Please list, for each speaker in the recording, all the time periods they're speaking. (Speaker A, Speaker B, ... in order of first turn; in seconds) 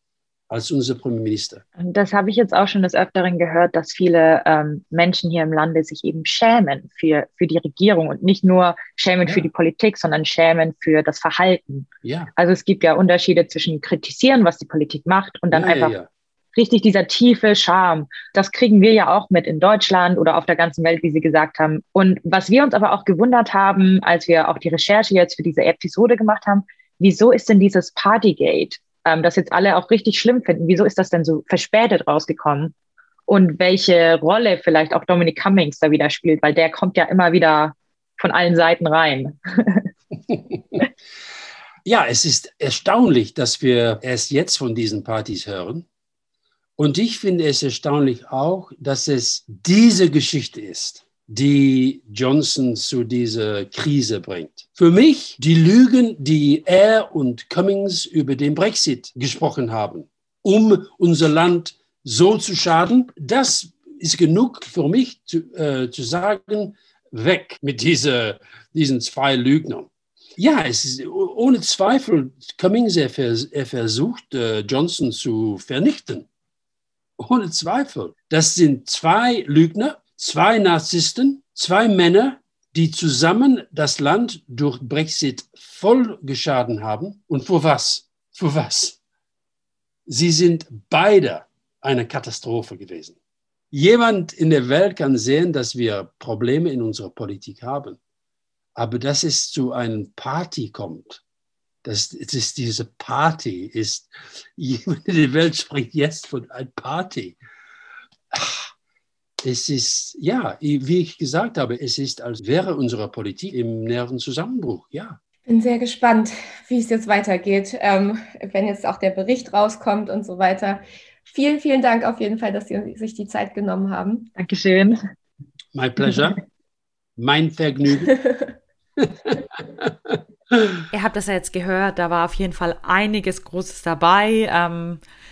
Speaker A: 0.5-1.6, 12.0-12.3, 15.5-16.1, 41.8-45.9, 46.8-76.3, 77.2-89.0, 90.1-93.2, 93.7-98.0, 98.8-101.2, 101.8-107.4, 108.3-108.7, 109.4-115.2, 125.7-126.4, 127.2-128.1, 129.0-130.1
Speaker B: 1.8-15.9, 16.5-32.7, 33.3-39.9, 124.4-125.0
Speaker C: 115.5-124.3, 128.1-128.5
Speaker D: 130.9-135.0